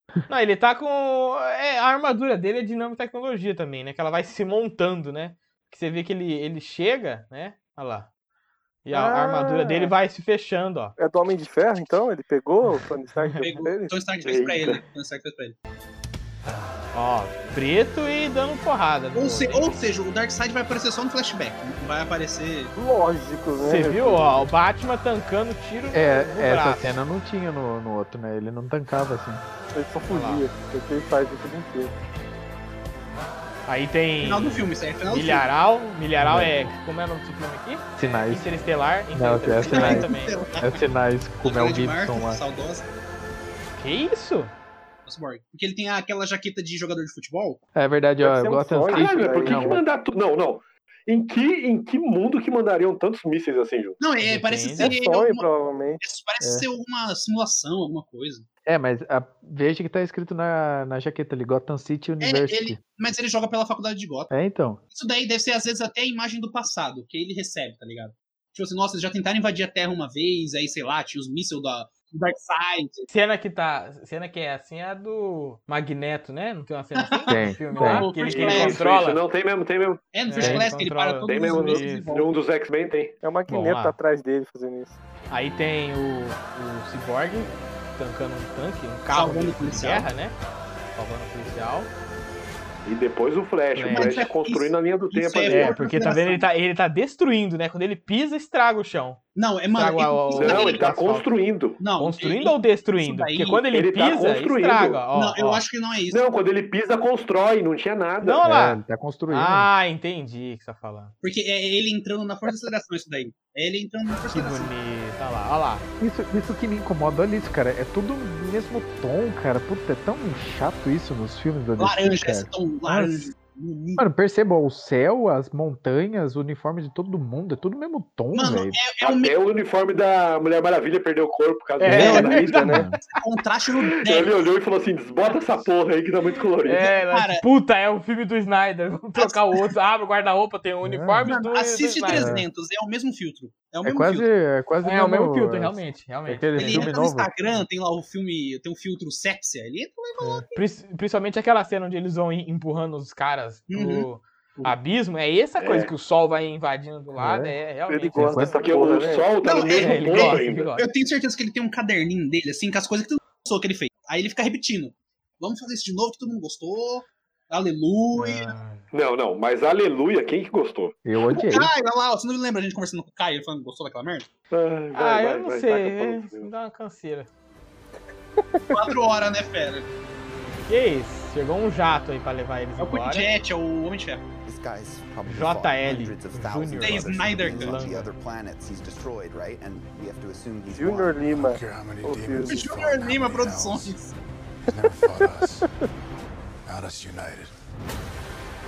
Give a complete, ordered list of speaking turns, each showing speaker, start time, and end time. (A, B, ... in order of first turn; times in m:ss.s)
0:00.3-0:08.1 A
0:08.8-0:11.0 A
0:08.9-0:09.9 B
0:11.0-0:14.0 B
0:13.2-0:13.4 A
0:13.4-0:15.6 C
0:14.2-0:14.8 D
0:16.9-0:19.8 A
0:19.1-0:22.7 C
0:22.8-0:24.5 B
0:23.6-0:27.0 A
0:25.9-0:29.4 E
0:29.7-0:31.9 B
0:30.1-0:30.4 A
0:33.7-0:40.4 A
0:34.2-0:35.5 C
0:36.2-0:36.7 E
0:38.0-0:38.5 E
0:39.1-0:42.4 E
0:39.7-0:40.8 C
0:41.4-0:42.9 C
0:43.8-0:44.5 A
0:45.1-0:47.6 C
0:47.8-0:49.8 E
0:48.2-0:49.8 B
0:48.9-0:54.0 D
0:54.0-0:55.4 C
0:54.2-0:54.9 A
0:54.8-0:56.0 B
0:56.0-0:58.5 C
0:56.4-0:56.7 E
0:58.7-1:02.8 E
1:02.2-1:04.3 C
1:04.3-1:04.8 E
1:04.9-1:13.1 C
1:13.1-1:19.2 A
1:17.2-1:18.8 C
1:17.3-1:18.1 E
1:18.2-1:20.0 D
1:20.1-1:22.4 C
1:20.2-1:22.1 A
1:20.4-1:20.7 E
1:21.3-1:23.1 D
1:23.2-1:25.0 B
1:23.5-1:24.0 A
1:25.3-1:30.4 A
1:29.1-1:30.1 C
1:31.0-1:31.9 A
1:32.8-1:35.7 D
1:33.8-1:34.2 A
1:33.9-1:36.5 C
1:35.5-1:39.2 A
1:39.4-1:40.9 C
1:39.7-1:41.3 A
1:40.4-1:41.8 D
1:41.8-1:43.6 C
1:42.0-1:45.6 A
1:43.7-1:45.0 D
1:45.1-1:46.2 C
1:46.1-1:48.4 D
1:48.2-1:51.1 A
1:48.4-1:49.7 E
1:51.2-1:54.7 C
1:54.3-1:55.9 A
1:56.0-2:03.3 E
2:01.8-2:04.0 C
2:04.0-2:08.8 E
2:08.3-2:09.4 C
2:09.0-2:12.7 D
2:11.8-2:13.2 A
2:11.9-2:13.0 E
2:11.9-2:12.3 C
2:12.2-2:12.9 B
2:13.0-2:14.5 C
2:14.0-2:16.8 D
2:16.6-2:22.4 A
2:16.7-2:17.4 C
2:19.2-2:19.7 C
2:20.8-2:21.3 E
2:21.2-2:24.3 C
2:22.1-2:22.5 E
2:23.8-2:27.3 E
2:24.8-2:27.0 A
2:26.6-2:30.5 C
2:30.2-2:30.5 E
2:30.5-2:38.5 A
2:33.7-2:34.1 C
2:35.6-2:35.9 D
2:37.2-2:37.6 E
2:37.9-2:39.3 B
2:38.2-2:38.6 E
2:38.5-2:40.7 D
2:39.4-2:48.5 C
2:39.6-2:40.9 A
2:48.2-2:48.8 A
2:48.9-2:51.0 D
2:51.0-2:51.7 E
2:51.2-2:54.3 C
2:54.5-2:56.5 D
2:54.9-2:57.3 A
2:58.4-2:58.7 B
2:58.7-2:59.9 C
3:00.7-3:03.3 A
3:02.8-3:04.3 C
3:04.4-3:11.3 F
3:05.3-3:08.1 A
3:06.8-3:07.8 C
3:10.7-3:12.6 B
3:11.3-3:14.0 G
3:12.5-3:14.1 C
3:14.7-3:15.7 G
3:16.7-3:17.5 G